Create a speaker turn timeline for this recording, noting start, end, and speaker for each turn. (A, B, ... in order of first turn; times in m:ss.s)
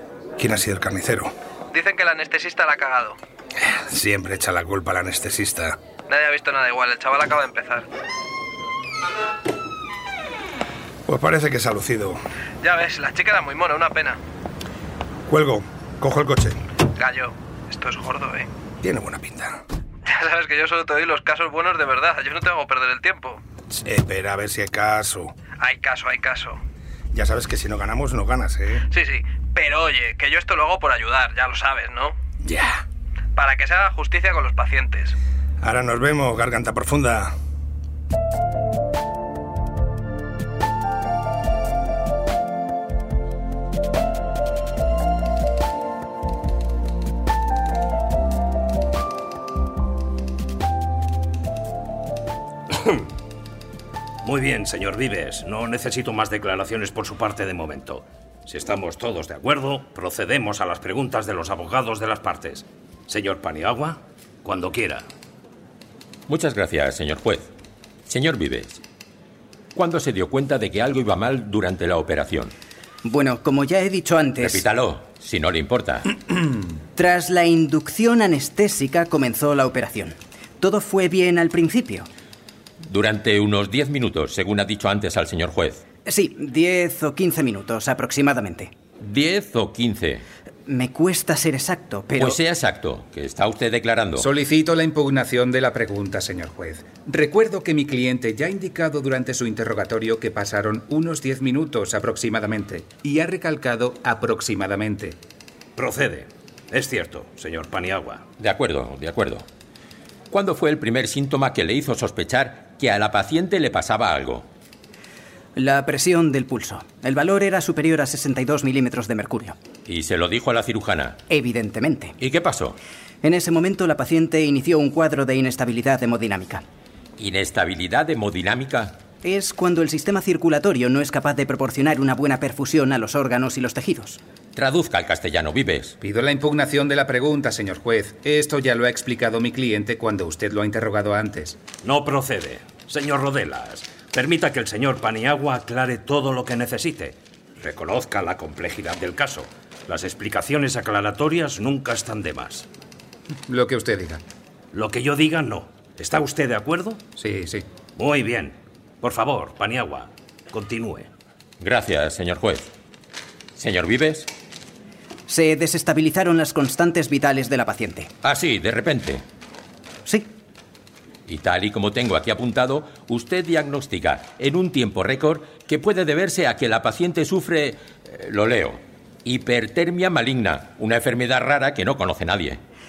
0:00.4-0:01.3 A
0:01.7-0:03.2 B
0:03.6-0:05.8 A
0:06.1-0:07.8 B
0:11.1-0:12.2 A
0:12.6-0:14.2 B
0:15.3-0:16.6 A
0:16.9-0:18.5 B
0:18.8-0:19.6 A
0:20.1-0:23.4 B
0:23.8-0:25.3 A
0:25.5-0:26.6 B
0:27.1-0:28.8 A
0:28.9-0:32.2 B
0:32.4-0:32.8 A
0:33.4-0:35.2 B
0:35.6-0:37.3 A
0:52.7-0:53.0 C
0:54.2-1:05.0 C
1:06.3-1:07.5 D
1:08.1-1:08.8 D
1:09.7-1:12.5 D
1:13.0-1:14.6 E
1:14.4-1:16.1 D
1:17.0-1:22.1 E
1:22.8-1:25.8 D
1:26.0-1:28.7 E
1:29.0-1:30.2 D
1:30.6-1:32.4 E
1:32.2-1:34.3 D
1:34.1-1:45.2 F
1:45.8-1:48.2 C
1:48.4-1:49.4 D
1:50.3-1:54.5 D
1:55.6-1:59.6 E
1:59.8-2:01.2 D
2:01.3-2:02.2 E
2:02.2-2:02.8 D
2:03.2-2:06.6 E
2:07.2-2:09.0 D
2:09.2-2:14.2 E
2:14.5-2:16.0 D
2:16.0-2:21.6 F
2:21.8-2:32.7 C
2:33.5-2:34.2 F
2:34.7-2:37.0 C
2:37.2-2:37.6 F
2:37.9-2:41.1 C
2:41.6-2:42.7 D
2:43.6-2:44.3 D
2:45.3-2:48.1 E
2:48.2-2:49.2 D
2:51.3-3:02.6 D